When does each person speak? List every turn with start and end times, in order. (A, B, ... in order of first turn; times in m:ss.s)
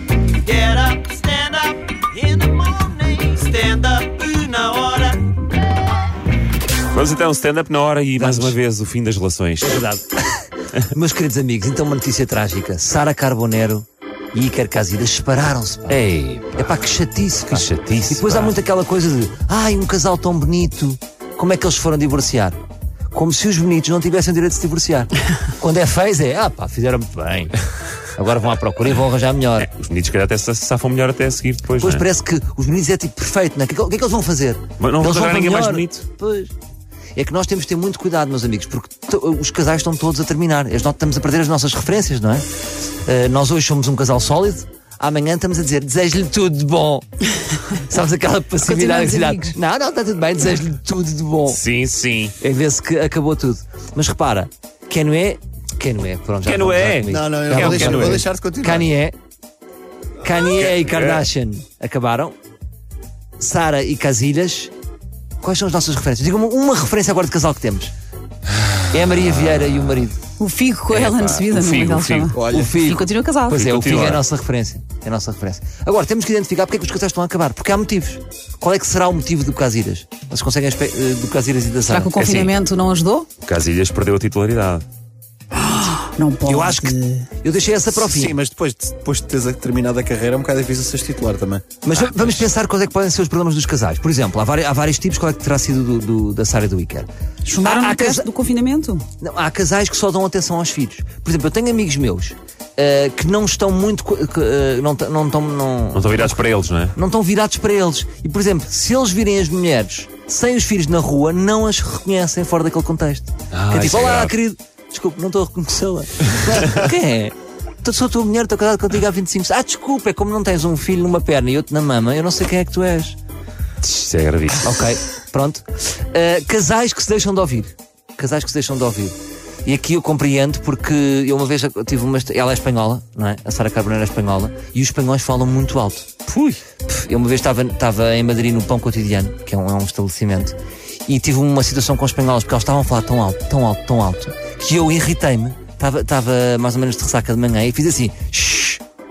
0:00.4-0:05.2 A
0:06.9-0:09.9 B
0:08.2-0:08.6 C
0:09.6-0:22.6 C
0:15.9-0:16.8 B
0:17.5-0:18.5 B
0:23.1-0:27.6 C
0:28.2-0:29.7 C
0:29.6-0:32.0 B
0:31.8-0:36.5 C
0:34.8-0:36.0 B
0:37.1-0:42.4 C
0:43.0-0:47.0 C
0:47.7-0:51.6 C
0:48.6-0:49.5 D
0:51.5-0:52.3 B
0:52.4-0:59.2 C
0:56.4-0:58.2 B
0:57.1-0:58.9 E
1:00.2-1:02.3 C
1:00.3-1:01.2 B
1:03.4-1:04.7 C
1:05.4-1:07.9 C
1:08.9-1:10.2 C
1:09.2-1:10.0 B
1:10.4-1:13.6 D
1:10.9-1:12.4 B
1:12.3-1:12.8 E
1:12.5-1:22.1 C
1:13.5-1:14.2 B
1:21.9-1:23.3 D
1:22.2-1:22.5 B
1:23.4-1:24.8 B
1:25.5-1:27.2 D
1:26.4-1:28.3 C
1:27.9-1:31.8 E
1:31.8-1:37.1 C
1:32.0-1:32.4 B
1:37.4-1:39.0 D
1:37.6-1:38.3 C
1:39.2-1:46.4 C
1:45.9-1:46.9 B
1:46.9-2:03.2 C
1:53.5-1:54.3 B
2:03.8-2:04.6 B
2:04.6-2:16.1 C
2:16.3-2:16.6 B
2:16.8-2:20.5 C
2:21.0-2:28.8 C